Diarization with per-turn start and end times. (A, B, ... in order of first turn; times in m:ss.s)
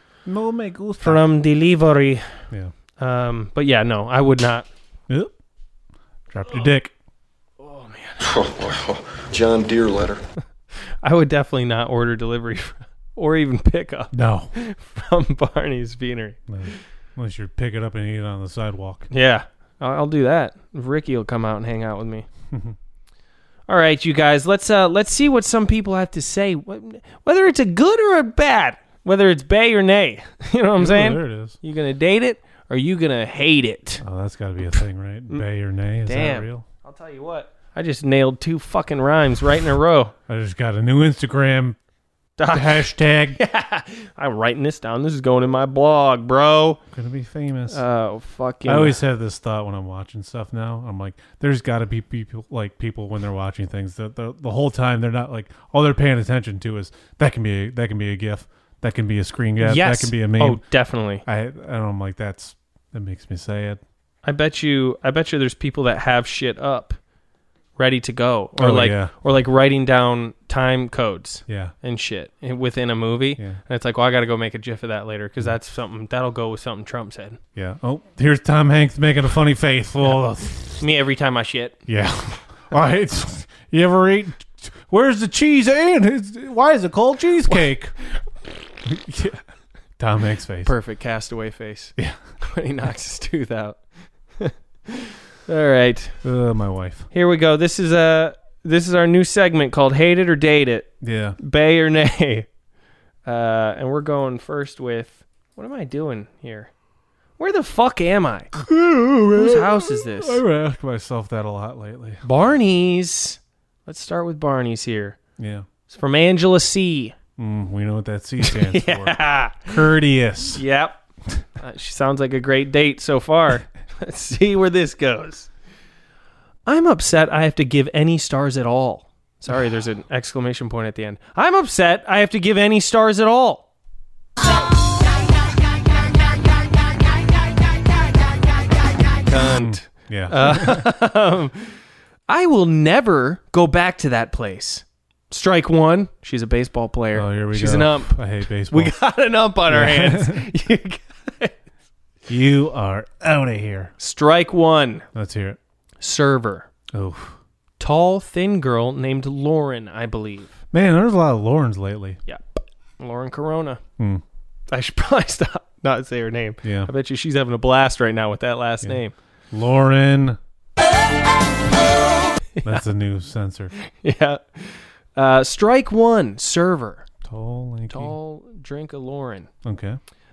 0:00.3-0:01.2 A
0:01.0-0:02.4 B
0:03.0-0:04.7 B
0:06.3-0:06.9 A
0:07.6-0:08.3 B
0:08.2-0:10.2 C
0:11.0-0:16.8 B
0:14.1-0:14.5 A
0:16.5-0:19.1 A
0:19.1-0:22.3 B
0:23.7-0:34.0 B
0:30.8-0:31.6 A
0:34.0-0:36.7 A
0:36.0-0:40.1 B
0:40.3-0:41.8 A
0:42.4-0:46.8 B
0:42.5-0:43.4 A
0:46.9-0:47.8 A
0:47.7-0:49.0 B
0:48.6-1:00.6 A
0:59.6-1:01.2 B
1:01.2-1:03.8 A
1:04.2-1:07.0 B
1:07.8-1:17.4 B
1:08.6-1:09.1 A
1:11.5-1:11.7 A
1:17.6-1:20.8 A
1:20.8-1:21.8 B
1:21.9-1:28.0 A
1:28.8-1:29.4 A
1:30.0-1:30.7 A
1:30.6-1:33.8 B
1:34.4-1:36.2 B
1:36.2-1:37.1 A
1:37.1-1:42.5 B
1:41.0-1:41.4 A
1:43.2-1:46.7 B
1:47.4-1:48.7 B
1:48.5-1:52.2 A
1:49.3-1:50.4 B
1:52.2-1:55.2 B
1:55.4-1:55.7 A
1:55.9-1:57.2 B
1:57.4-2:00.6 A
1:58.4-1:59.8 B
2:00.5-2:01.0 B
2:01.6-2:05.5 B
2:06.7-2:13.7 B
2:19.2-2:21.7 B
2:19.6-2:20.9 A
2:22.3-2:28.2 B
2:27.1-2:29.0 A
2:28.7-2:31.6 B
2:29.7-2:30.5 A
2:32.3-2:33.9 A
2:34.0-2:35.0 B
2:35.1-2:35.6 A
2:36.0-2:36.7 B
2:36.9-2:37.4 A
2:37.8-2:40.6 B
2:40.7-2:42.2 A
2:42.3-2:43.8 B
2:44.0-2:44.2 A
2:44.7-2:49.2 B
2:46.6-2:46.9 A
2:49.5-2:50.4 A
2:52.6-2:53.7 A
2:53.8-2:57.1 B
2:57.2-2:58.2 A
2:57.9-2:59.5 B
2:59.6-3:00.0 A